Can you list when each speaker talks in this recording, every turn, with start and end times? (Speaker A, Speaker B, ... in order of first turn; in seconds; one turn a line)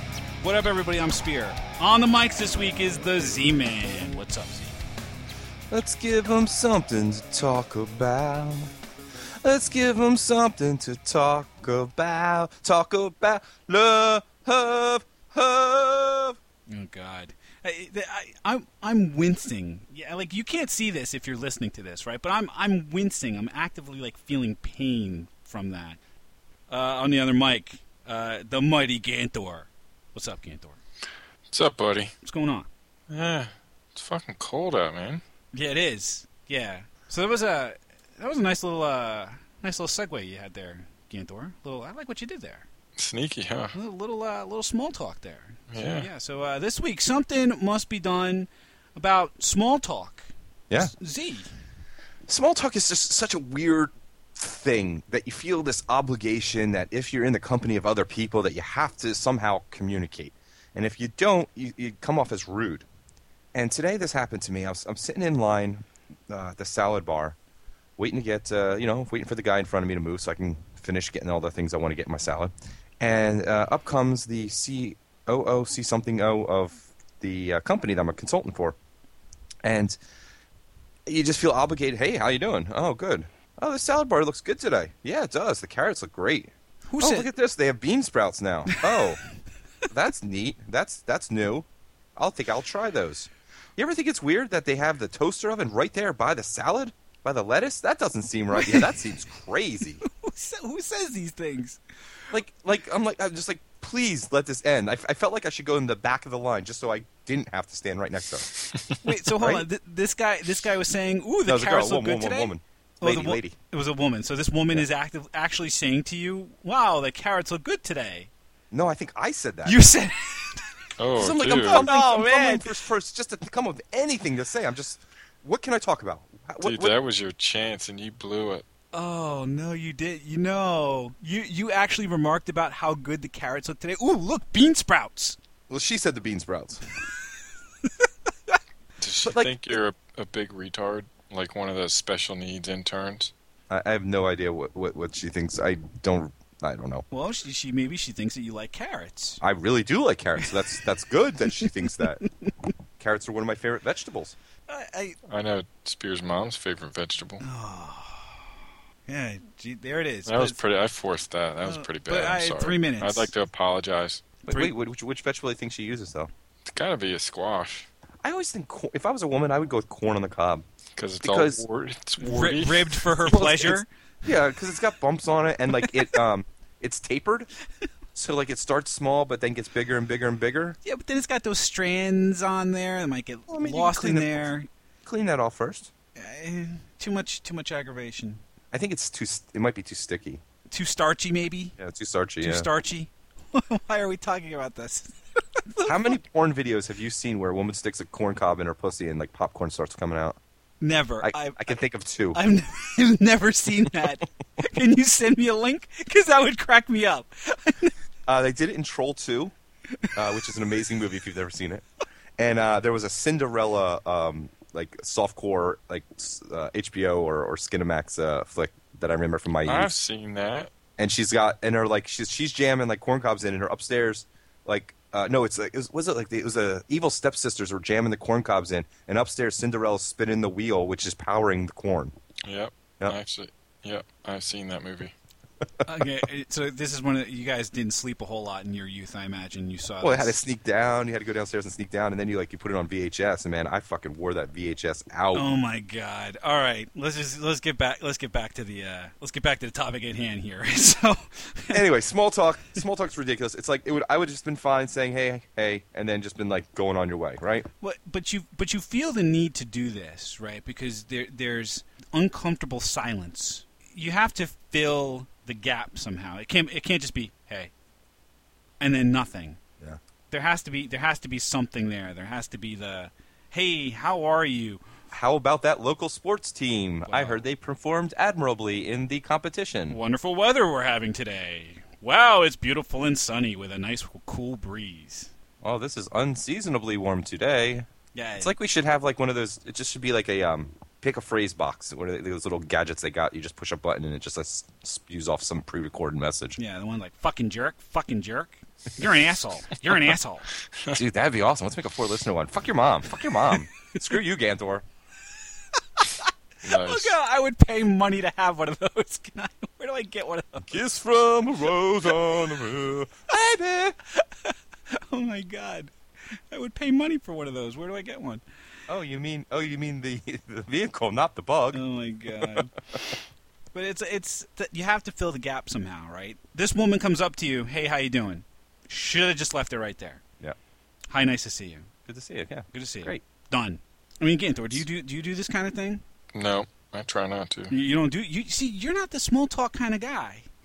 Speaker A: 0.4-4.8
Speaker B: 5.7-8.7
Speaker B: 9.4-16.4
Speaker A: 16.7-26.0
Speaker A: 26.7-30.8
Speaker C: 31.5-32.1
Speaker A: 32.2-32.7
Speaker C: 33.1-35.2
Speaker A: 35.5-42.7
Speaker C: 43.0-43.7
Speaker A: 43.7-51.5
Speaker C: 45.7-46.1
Speaker B: 52.3-62.9
Speaker B: 63.5-67.3
Speaker B: 68.0-78.8
Speaker B: 79.6-80.0
Speaker B: 81.1-89.2
Speaker A: 86.9-87.3
Speaker A: 88.7-89.1
Speaker B: 89.9-100.0
Speaker A: 98.6-98.9
Speaker A: 100.0-101.8
Speaker B: 102.3-108.5
Speaker A: 109.0-118.3
Speaker B: 109.3-109.6
Speaker B: 111.5-113.5
Speaker B: 118.7-119.8
Speaker A: 119.6-120.8
Speaker C: 121.0-121.8
Speaker B: 121.2-126.9
Speaker A: 121.6-122.7
Speaker C: 126.6-128.6
Speaker A: 128.9-135.4
Speaker B: 135.7-136.8
Speaker A: 137.8-138.5
Speaker C: 139.0-143.3
Speaker B: 139.2-139.5
Speaker B: 143.7-147.1
Speaker A: 147.1-149.4
Speaker B: 149.4-152.2
Speaker A: 151.6-152.3
Speaker B: 153.0-154.3
Speaker A: 154.7-155.2
Speaker C: 155.3-157.4
Speaker A: 157.4-158.5
Speaker A: 159.1-160.6
Speaker C: 160.2-164.3
Speaker A: 161.6-163.3
Speaker A: 164.4-164.7
Speaker B: 164.5-166.3
Speaker C: 166.7-167.9
Speaker B: 168.2-170.6
Speaker C: 171.0-173.0
Speaker B: 171.2-171.6
Speaker A: 172.2-173.9
Speaker B: 173.3-177.5
Speaker B: 178.1-180.8
Speaker A: 180.8-184.7
Speaker B: 183.5-184.5
Speaker B: 185.0-185.9
Speaker A: 186.2-188.4
Speaker B: 188.7-190.4
Speaker A: 190.7-191.8
Speaker B: 191.8-192.7
Speaker A: 192.4-195.1
Speaker A: 195.7-196.2
Speaker B: 195.8-200.4
Speaker A: 200.8-201.7
Speaker B: 201.2-202.4
Speaker A: 202.3-207.9
Speaker B: 208.3-209.5
Speaker B: 210.1-211.8
Speaker B: 212.4-219.9
Speaker C: 219.7-220.7
Speaker B: 221.0-232.1
Speaker C: 232.4-235.1
Speaker A: 235.8-240.5
Speaker B: 240.0-245.5
Speaker A: 245.3-251.8
Speaker B: 251.7-257.7
Speaker A: 257.8-267.7
Speaker A: 268.8-269.6
Speaker A: 270.3-274.8
Speaker B: 275.1-280.0
Speaker A: 277.1-277.4
Speaker A: 279.9-285.3
Speaker B: 285.6-287.9
Speaker A: 288.1-288.5
Speaker B: 288.4-296.6
Speaker A: 296.6-300.5
Speaker B: 300.9-304.9
Speaker A: 305.7-310.8
Speaker C: 306.6-307.1
Speaker B: 310.6-313.9
Speaker A: 314.0-318.4
Speaker B: 318.9-321.8
Speaker A: 321.7-322.7
Speaker A: 323.7-330.2
Speaker A: 331.1-331.9
Speaker B: 332.1-333.2
Speaker A: 332.7-336.0
Speaker C: 336.3-337.7
Speaker A: 337.7-340.4